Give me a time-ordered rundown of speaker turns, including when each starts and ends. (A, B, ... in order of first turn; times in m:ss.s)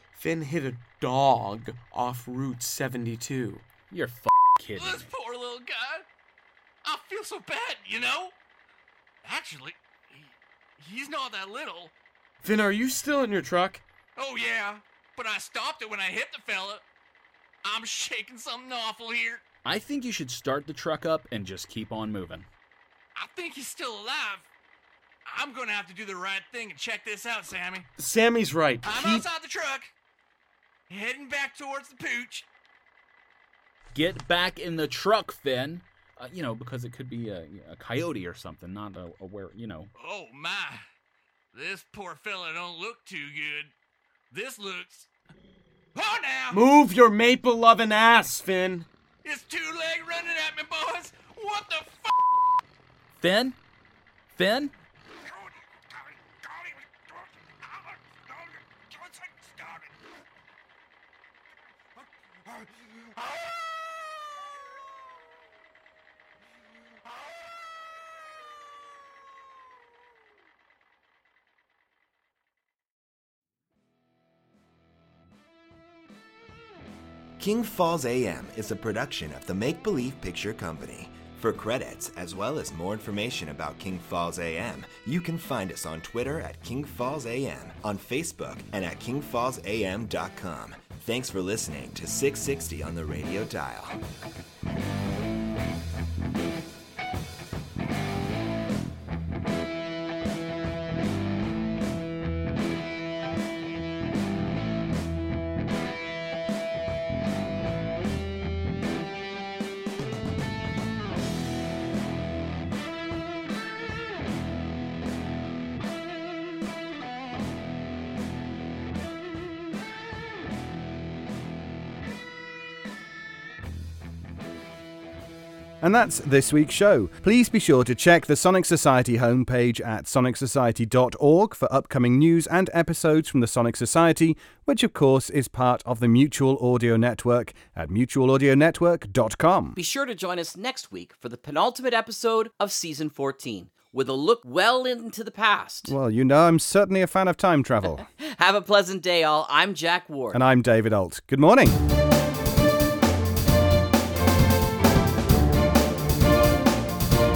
0:00.2-0:03.6 A
0:03.9-0:05.1 B
0:04.8-0:06.0 C
0:06.8-0:08.3 C
0:09.2-0:11.9 C
0:12.4-0:13.8 A
0:14.2-0:16.8 C
0:17.6-0:19.4 C
0:19.6-0:22.5 B
0:23.2-0:24.5 C
0:25.3-0:27.9 C
0:28.0-0:29.3 A
0:28.8-0:29.9 C
0:30.9-0:32.5 C
0:33.9-0:39.9 B
0:40.0-0:40.8 C
0:41.5-0:43.7 C
0:44.3-0:45.1 C
0:46.0-0:46.6 C
0:46.5-0:48.9 A
0:49.2-0:52.1 C
0:53.2-0:53.6 B
0:54.3-0:54.7 B
0:58.9-0:59.9 C
1:17.4-1:34.0 D
2:05.8-2:19.8 E
2:19.8-2:25.9 F
2:25.9-2:28.0 E
2:28.2-2:30.4 F
2:30.3-2:31.8 E